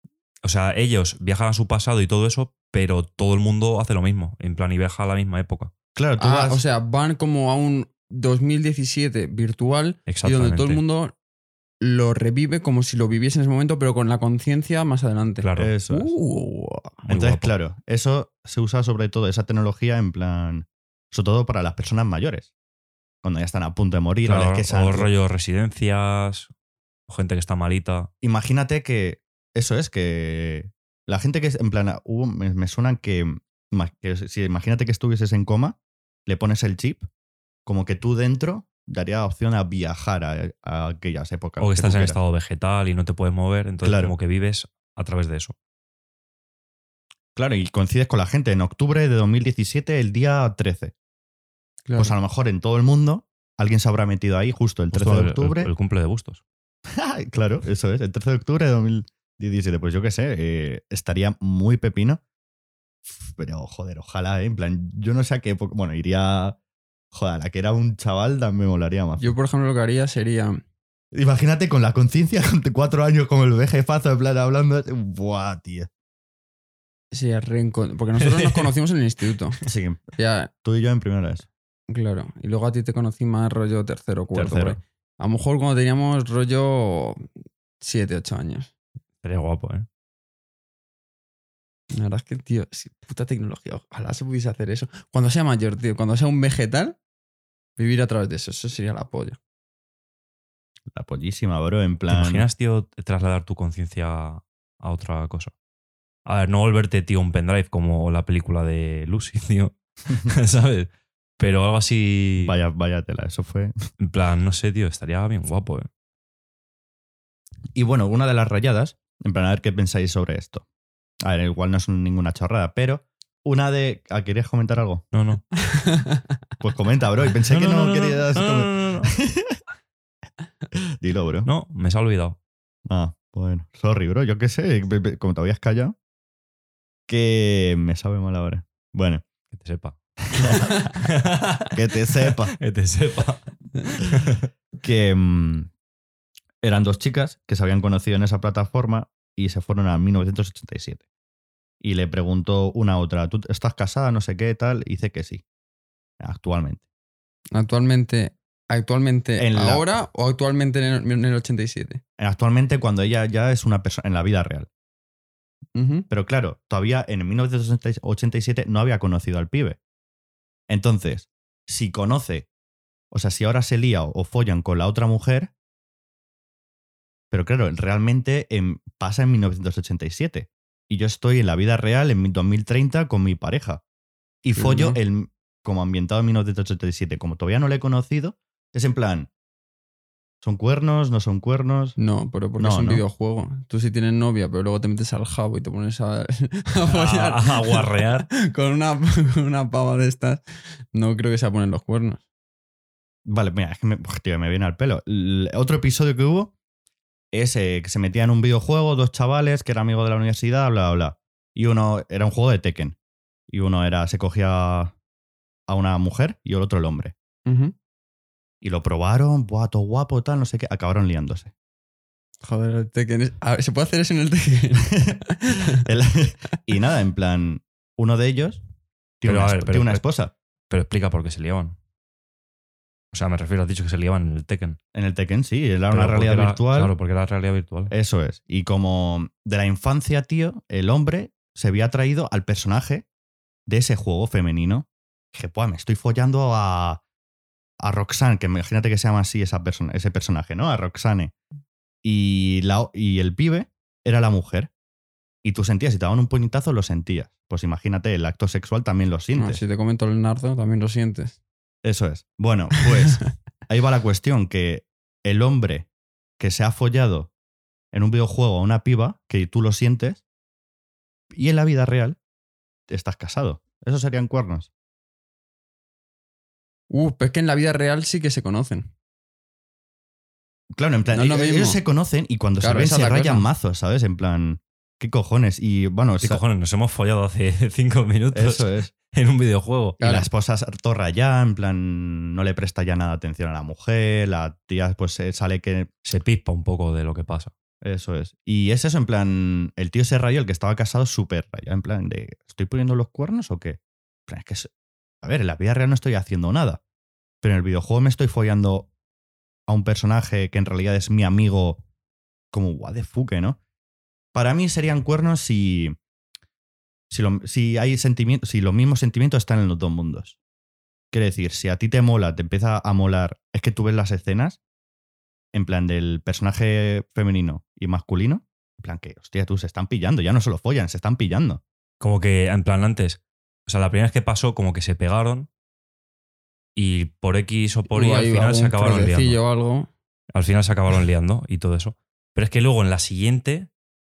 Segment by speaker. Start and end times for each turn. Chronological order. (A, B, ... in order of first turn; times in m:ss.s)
0:00.4-0:05.7 A
0:06.0-0:06.6 B
0:06.2-0:11.1 C
0:10.1-0:10.8 A
0:11.8-0:17.1 C
0:15.4-0:15.7 A
0:15.6-0:16.1 B
0:17.1-0:17.5 A
0:17.1-0:22.5 B
0:23.2-0:25.1 B
0:24.2-0:26.5 A
0:27.1-0:28.1 A
0:28.2-0:37.1 B
0:37.7-0:42.2 B
0:41.6-0:45.6 A
0:43.8-0:44.1 B
0:47.4-0:50.9 B
0:51.9-0:52.2 C
0:52.0-0:55.7 B
0:54.9-0:56.4 A
0:57.0-1:02.2 B
1:03.0-1:06.6 B
1:07.1-1:09.3 B
1:09.2-1:10.6 C
1:11.1-1:15.9 B
1:17.1-1:19.6 C
1:18.2-1:18.7 A
1:19.7-1:20.0 B
1:20.2-1:20.5 C
1:20.6-1:21.5 B
1:21.9-1:27.3 C
1:24.3-1:24.8 B
1:27.8-1:28.7 C
1:29.2-1:29.9 A
1:31.9-1:37.0 C
1:37.8-1:39.4 C
1:40.9-1:42.5 B
1:42.1-1:45.5 A
1:46.3-1:52.6 A
1:52.4-1:53.7 B
1:54.0-1:55.9 A
1:57.7-2:00.6 B
2:01.2-2:05.0 B
2:05.1-2:05.5 A
2:05.7-2:06.2 C
2:06.6-2:09.6 B
2:07.4-2:09.1 A
2:10.8-2:11.5 B
2:11.4-2:12.4 A
2:12.9-2:16.0 B
2:17.1-2:19.2 B
2:19.5-2:24.5 A
2:20.4-2:21.0 B
2:21.7-2:22.6 B
2:24.8-2:25.7 B
2:26.6-2:31.0 B
2:31.8-2:35.4 B
2:36.2-2:36.8 B
2:37.5-2:42.0 C
2:39.4-2:39.8 B
2:42.2-2:44.7 B
2:45.8-2:46.1 C
2:46.1-2:49.8 B
2:50.7-2:52.5 B
2:53.1-2:55.5 B
2:57.3-3:03.8 B
3:04.4-3:09.3 B
3:04.6-3:05.0 C
3:10.4-3:12.0 B
3:12.0-3:22.2 C
3:12.6-3:13.0 B
3:16.8-3:18.3 A
3:23.3-3:26.5 B
3:27.3-3:33.0 B
3:33.5-3:34.9 B
3:35.7-3:37.1 B
3:37.5-3:37.7 C
3:38.6-3:41.5 B
3:42.4-3:45.8 C
3:45.8-3:48.6 B
3:49.2-3:50.3 B
3:49.2-3:50.0 A
3:50.7-3:51.8 A
3:53.1-3:54.8 A
3:54.9-3:56.9 B
3:55.9-3:57.9 A
3:57.9-4:03.1 B
4:03.7-4:07.0 B
4:07.8-4:11.3 B
4:12.0-4:14.7 B
4:15.4-4:19.6 B
4:19.4-4:21.4 C
4:21.8-4:25.9 B
4:26.4-4:27.3 B
4:27.9-4:30.2 B
4:31.3-4:32.2 B
4:32.9-4:34.7 B
4:36.9-4:38.9 C
4:40.7-4:46.4 B
4:41.1-4:41.8 C
4:42.6-4:43.5 C
4:46.2-4:50.0 A
4:48.3-4:48.9 B
4:50.0-4:50.3 C
4:50.0-4:55.9 B
4:56.1-4:57.5 A
4:57.8-5:04.7 B
5:05.2-5:06.8 B
5:07.4-5:08.9 B
5:09.7-5:11.8 B
5:12.5-5:13.6 B
5:14.3-5:16.0 B
5:17.1-5:20.4 B
5:21.1-5:24.6 B
5:25.5-5:31.6 B
5:32.0-5:35.5 A
5:36.8-5:39.4 A
5:37.9-5:39.9 C
5:40.3-5:43.7 A